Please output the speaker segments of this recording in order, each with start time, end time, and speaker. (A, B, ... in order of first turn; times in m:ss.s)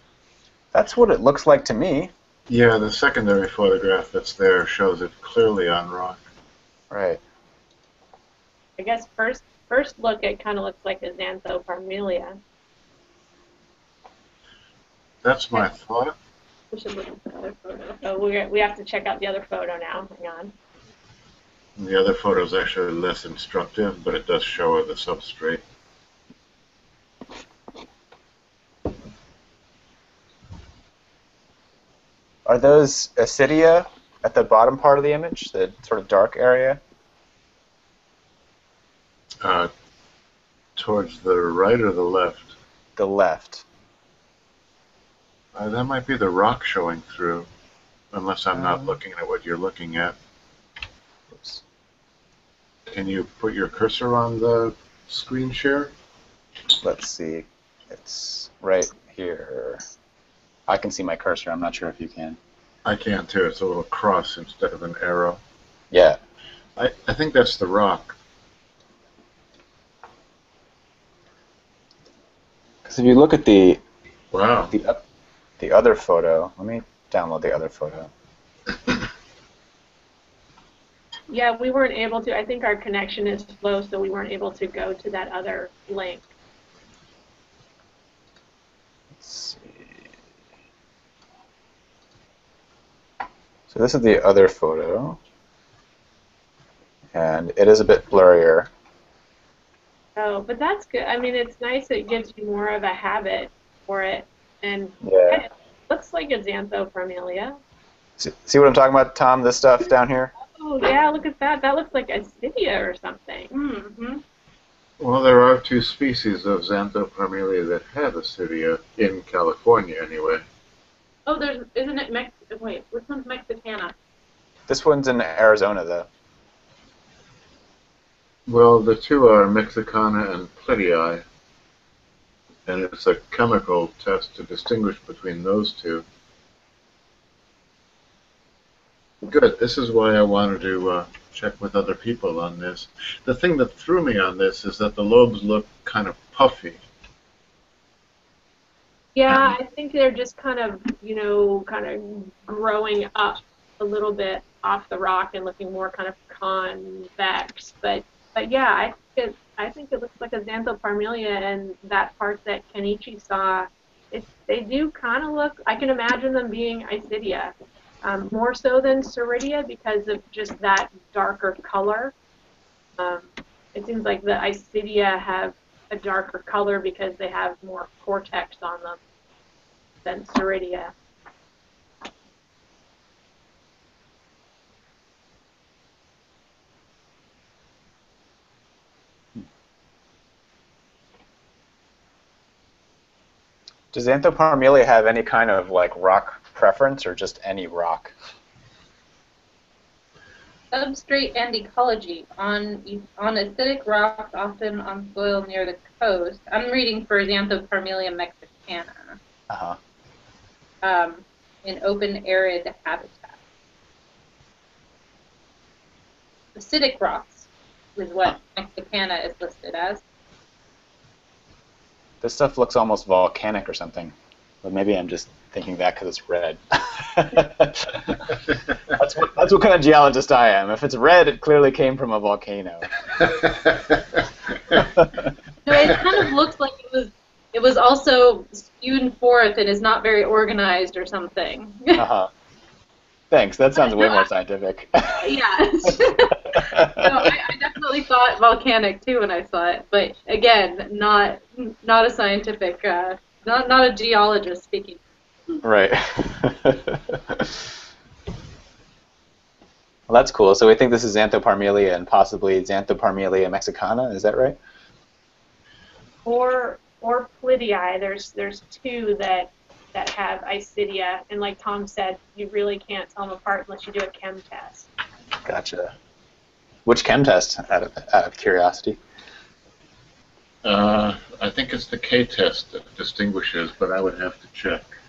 0:00.7-0:02.1 A
0:02.5-0:06.2 B
0:06.9-0:07.2 A
0:08.8-0:12.4 C
0:15.2-0:16.1 B
0:16.7-0:20.5 C
0:21.8-0:25.6 B
0:32.4-0:36.8 A
0:39.4-0:39.7 B
0:40.8-0:42.5 B
0:43.0-0:43.6 A
0:45.5-0:47.5 B
0:48.1-0:50.2 B
0:51.3-0:51.6 A
0:52.9-0:55.9 B
0:56.8-0:59.8 A
1:00.7-1:02.4 A
1:02.8-1:05.4 B
1:05.9-1:06.2 A
1:06.8-1:08.2 B
1:12.8-1:13.8 A
1:14.3-1:14.7 B
1:14.7-1:15.0 A
1:15.6-1:18.1 A
1:21.3-1:26.3 C
1:29.2-1:30.0 A
1:33.7-1:35.2 A
1:37.1-1:38.7 A
1:40.2-1:47.6 C
1:45.0-1:45.4 A
1:48.2-1:50.3 A
1:50.5-1:53.5 C
1:53.5-1:54.2 D
1:55.0-2:00.4 B
2:01.2-2:03.9 D
2:04.7-2:06.1 A
2:08.4-2:11.2 B
2:12.6-2:16.0 B
2:19.2-2:26.8 B
2:29.1-2:52.1 C
2:29.3-2:29.5 B
2:53.0-2:59.0 C
3:00.0-3:00.9 C
3:13.9-3:18.1 A
3:20.7-3:29.2 D
3:29.5-3:29.8 A
3:30.8-3:33.4 D
3:36.5-3:40.0 D
3:42.2-3:48.4 A
3:48.9-3:52.9 A
3:53.2-3:54.2 B
3:55.6-4:02.0 D
4:01.9-4:02.3 A
4:03.3-4:05.3 A
4:03.8-4:04.2 D
4:05.1-4:15.0 D
4:06.5-4:07.3 A
4:15.6-4:17.5 A
4:20.1-4:24.6 A
4:26.2-4:34.9 C
4:35.4-4:35.9 A
4:36.8-4:39.0 A
4:40.6-4:44.9 B